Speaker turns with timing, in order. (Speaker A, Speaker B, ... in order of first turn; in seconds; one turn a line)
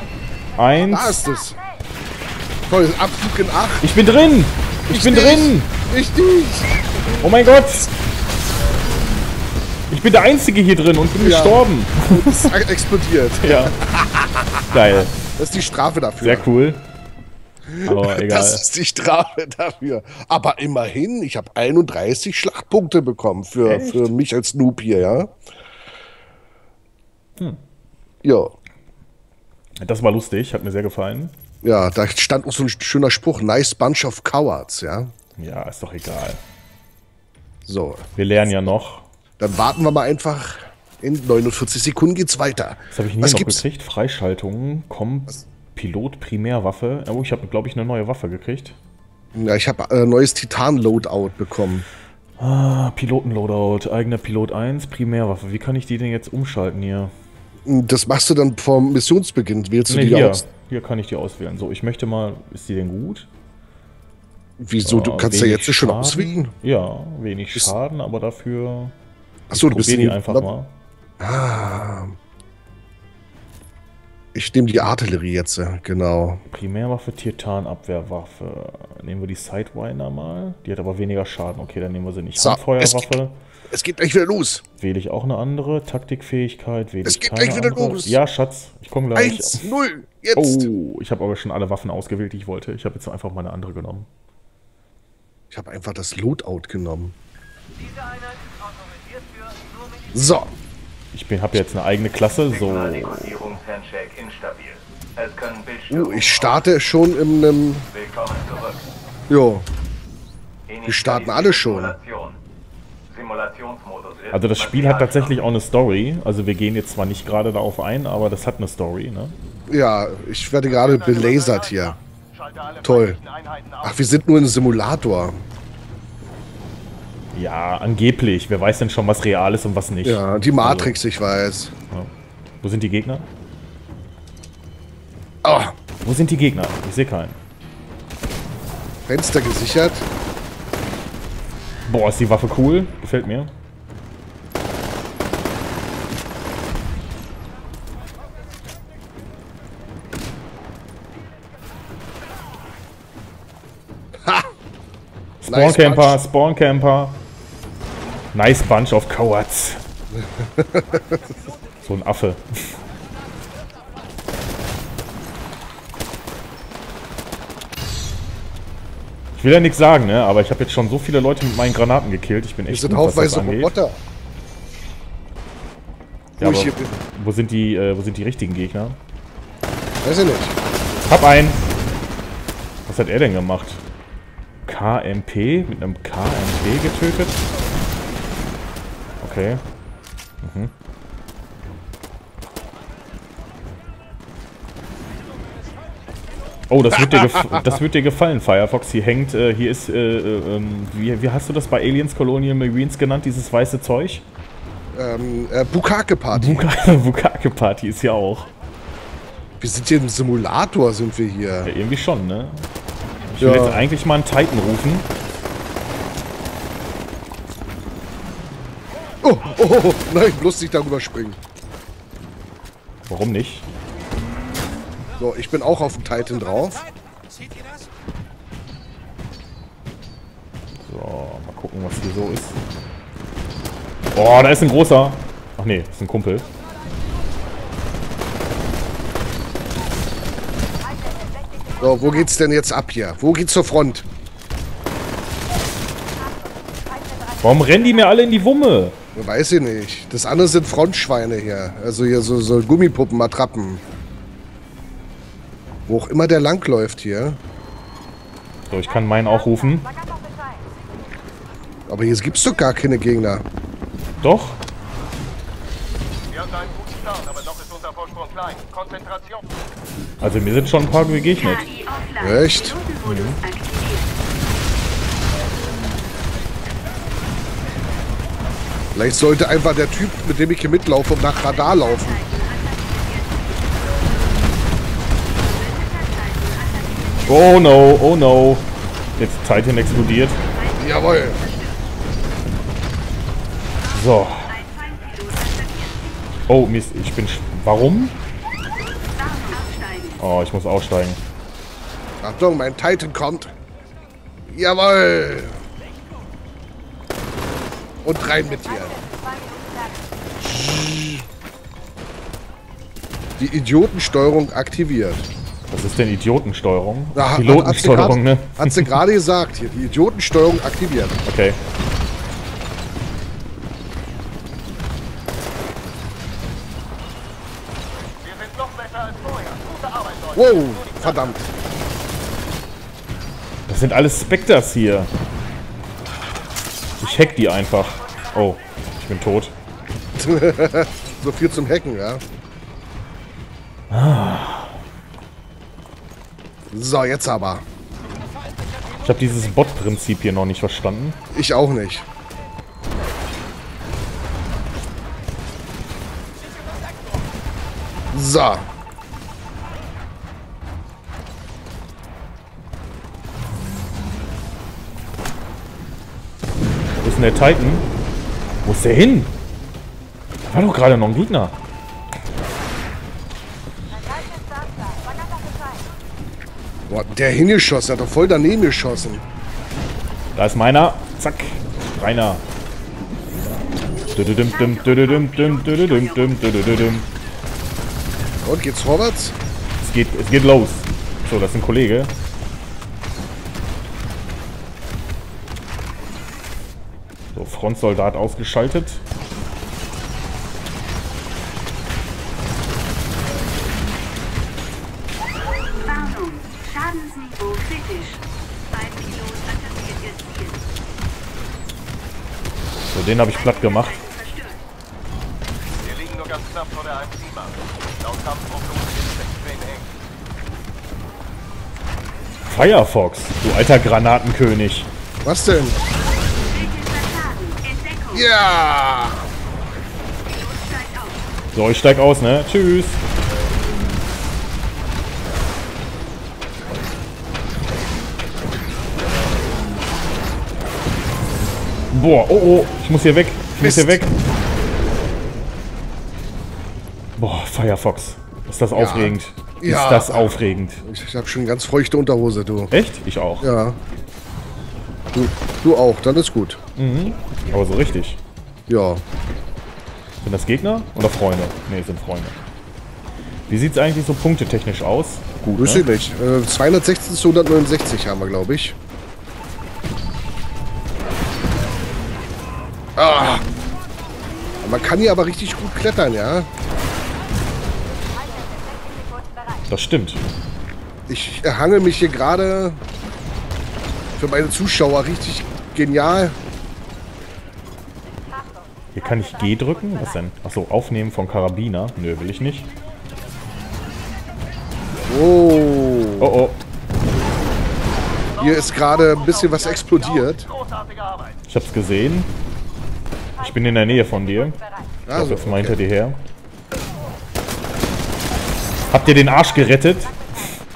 Speaker A: 0.6-1.2
Speaker B: 0.8-1.6
Speaker B: 2.7-3.9
Speaker A: 3.8-5.7
Speaker B: 4.9-6.8
Speaker A: 7.2-7.9
Speaker A: 9.9-12.4
Speaker B: 11.2-14.7
Speaker A: 13.4-13.7
Speaker A: 14.7-15.2
Speaker B: 15.2-16.5
Speaker A: 16.2-16.8
Speaker B: 17.7-25.3
Speaker A: 17.8-18.6
Speaker A: 23.6-24.1
Speaker B: 28.2-28.5
Speaker A: 29.8-31.3
Speaker B: 31.6-35.1
Speaker A: 35.4-36.4
Speaker B: 37.6-38.1
Speaker A: 38.1-39.1
Speaker B: 39.4-43.6
Speaker A: 42.9-48.8
Speaker B: 49.3-51.9
Speaker A: 52.4-57.1
Speaker B: 57.7-60.4
Speaker A: 59.9-63.3
Speaker B: 64.6-66.5
Speaker A: 64.8-68.9
Speaker B: 69.5-70.5
Speaker A: 69.5-70.7
Speaker B: 71.2-72.2
Speaker B: 74.3-76.4
Speaker A: 76.5-83.4
Speaker B: 82.4-83.2
Speaker B: 83.7-84.6
Speaker A: 84.8-89.7
Speaker B: 87.0-88.2
Speaker B: 89.1-90.7
Speaker A: 90.3-94.1
Speaker B: 95.5-97.1
Speaker B: 100.1-100.5
Speaker A: 101.1-103.6
Speaker B: 105.9-107.9
Speaker B: 109.3-109.7
Speaker B: 110.8-112.0
Speaker A: 114.3-119.3
Speaker B: 119.7-122.0
Speaker B: 122.8-123.2
Speaker B: 123.8-125.4
Speaker A: 127.3-131.0
Speaker B: 130.0-131.7
Speaker A: 132.6-133.3
Speaker B: 135.4-135.7
Speaker A: 136.0-137.4
Speaker B: 139.1-140.1
Speaker A: 141.9-143.5
Speaker A: 155.4-157.2
Speaker B: 155.5-156.2
Speaker A: 158.3-159.8
Speaker B: 160.1-161.4
Speaker A: 161.8-162.8
Speaker A: 169.4-173.7
Speaker B: 172.7-174.0
Speaker A: 176.4-179.0
Speaker B: 176.4-177.0
Speaker B: 180.0-180.6
Speaker A: 181.1-181.6
Speaker A: 182.9-183.8
Speaker A: 184.7-187.5
Speaker A: 189.2-189.6
Speaker A: 190.4-190.7
Speaker A: 196.7-204.2
Speaker B: 204.9-206.7
Speaker A: 206.3-208.5
Speaker B: 209.6-211.7
Speaker A: 211.6-212.7
Speaker A: 213.3-215.1
Speaker B: 213.4-213.9
Speaker B: 219.2-221.4
Speaker A: 223.1-223.7
Speaker B: 225.2-226.8
Speaker A: 230.8-232.6
Speaker A: 234.1-236.5
Speaker B: 241.8-244.1
Speaker A: 247.4-248.9
Speaker B: 249.1-253.8
Speaker B: 255.9-257.4
Speaker A: 258.7-259.9
Speaker B: 261.9-263.4
Speaker A: 264.2-264.6
Speaker A: 270.2-271.7
Speaker B: 272.2-272.8
Speaker A: 273.0-273.4
Speaker B: 278.9-282.2
Speaker A: 287.3-290.4
Speaker B: 290.8-291.4
Speaker A: 293.9-294.6
Speaker A: 296.5-298.2
Speaker A: 300.2-301.2
Speaker B: 302.2-303.5
Speaker B: 304.5-305.6
Speaker B: 308.0-309.0
Speaker B: 310.4-311.2
Speaker B: 313.4-315.3
Speaker A: 315.7-319.0
Speaker B: 317.1-321.2
Speaker A: 321.2-321.6
Speaker C: 328.8-329.6
Speaker B: 330.3-331.4
Speaker A: 333.7-335.1
Speaker A: 337.0-339.5
Speaker B: 340.2-342.2
Speaker A: 343.9-344.8
Speaker B: 346.7-347.6
Speaker A: 349.0-351.2
Speaker B: 351.3-352.1
Speaker B: 358.1-358.7
Speaker A: 367.0-367.9
Speaker A: 368.6-369.3
Speaker A: 370.4-371.6
Speaker B: 376.9-379.2
Speaker A: 380.4-382.4
Speaker A: 384.1-387.1
Speaker B: 388.4-389.3
Speaker A: 389.8-392.1
Speaker A: 397.3-399.0
Speaker A: 412.9-414.1
Speaker C: 416.1-417.1
Speaker C: 418.5-419.8
Speaker A: 422.5-424.9
Speaker B: 425.2-425.8
Speaker B: 428.1-429.3
Speaker A: 431.5-433.0
Speaker A: 441.9-444.1
Speaker B: 443.6-444.0
Speaker A: 447.2-450.8
Speaker B: 448.7-452.7
Speaker A: 452.7-453.5
Speaker B: 453.4-453.8
Speaker B: 455.1-456.6
Speaker A: 456.8-458.2
Speaker B: 458.7-459.0
Speaker A: 460.2-462.4
Speaker A: 463.5-465.9
Speaker B: 465.6-468.8
Speaker B: 473.0-473.4
Speaker B: 474.6-476.5
Speaker A: 479.7-480.2
Speaker B: 481.1-482.8
Speaker B: 484.2-486.4
Speaker A: 488.9-492.7
Speaker B: 495.1-496.3
Speaker A: 496.2-496.6
Speaker B: 498.4-500.5
Speaker A: 501.4-502.3
Speaker A: 503.4-504.6
Speaker B: 505.1-505.8
Speaker A: 505.1-506.2
Speaker A: 508.9-510.2